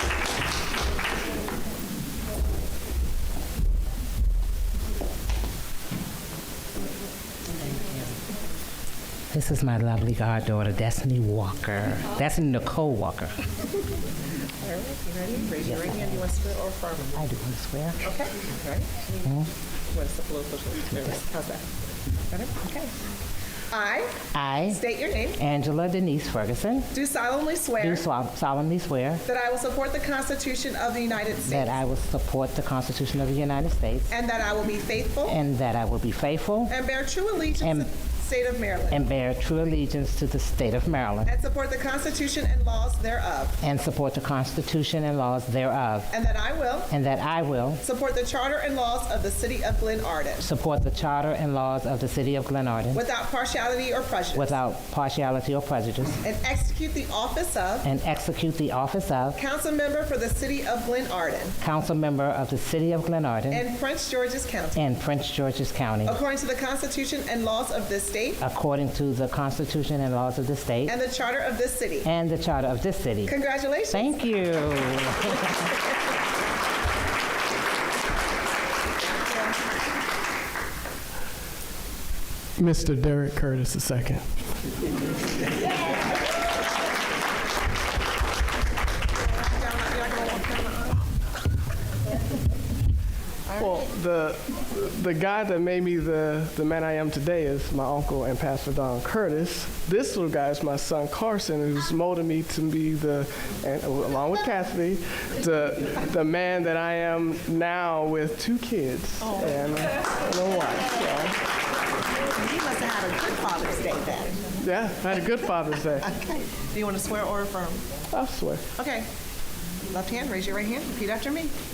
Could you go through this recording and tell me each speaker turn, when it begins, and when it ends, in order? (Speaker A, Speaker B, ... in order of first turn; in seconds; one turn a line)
Speaker A: 9.3-13.4
Speaker B: 14.6-17.2
Speaker A: 15.6-16.2
Speaker A: 17.1-18.0
Speaker B: 18.0-19.3
Speaker B: 19.9-21.6
Speaker B: 22.3-22.9
Speaker B: 23.7-25.4
Speaker A: 24.3-24.8
Speaker A: 25.4-26.9
Speaker B: 26.9-28.1
Speaker A: 27.8-29.2
Speaker B: 29.2-31.8
Speaker A: 31.5-34.1
Speaker B: 34.1-35.4
Speaker A: 35.2-36.7
Speaker B: 36.7-39.0
Speaker A: 37.6-37.9
Speaker A: 38.9-41.3
Speaker B: 41.2-43.6
Speaker A: 43.6-46.1
Speaker B: 46.1-46.9
Speaker A: 46.9-47.8
Speaker B: 47.8-50.5
Speaker A: 50.4-53.0
Speaker B: 52.9-54.6
Speaker A: 54.3-56.2
Speaker B: 56.2-57.9
Speaker A: 57.8-59.4
Speaker B: 59.4-61.5
Speaker A: 61.6-63.6
Speaker B: 63.5-64.8
Speaker A: 64.7-66.2
Speaker B: 66.0-68.4
Speaker A: 68.4-71.0
Speaker B: 70.8-72.1
Speaker A: 72.0-73.3
Speaker B: 73.2-74.1
Speaker A: 73.9-75.5
Speaker C: 82.6-84.2
Speaker B: 89.4-91.0
Speaker C: 93.5-111.3
Speaker B: 109.2-109.6
Speaker B: 112.3-114.4
Speaker C: 114.6-116.1
Speaker B: 116.0-117.8
Speaker C: 118.1-118.6
Speaker B: 118.7-119.1
Speaker B: 119.9-121.5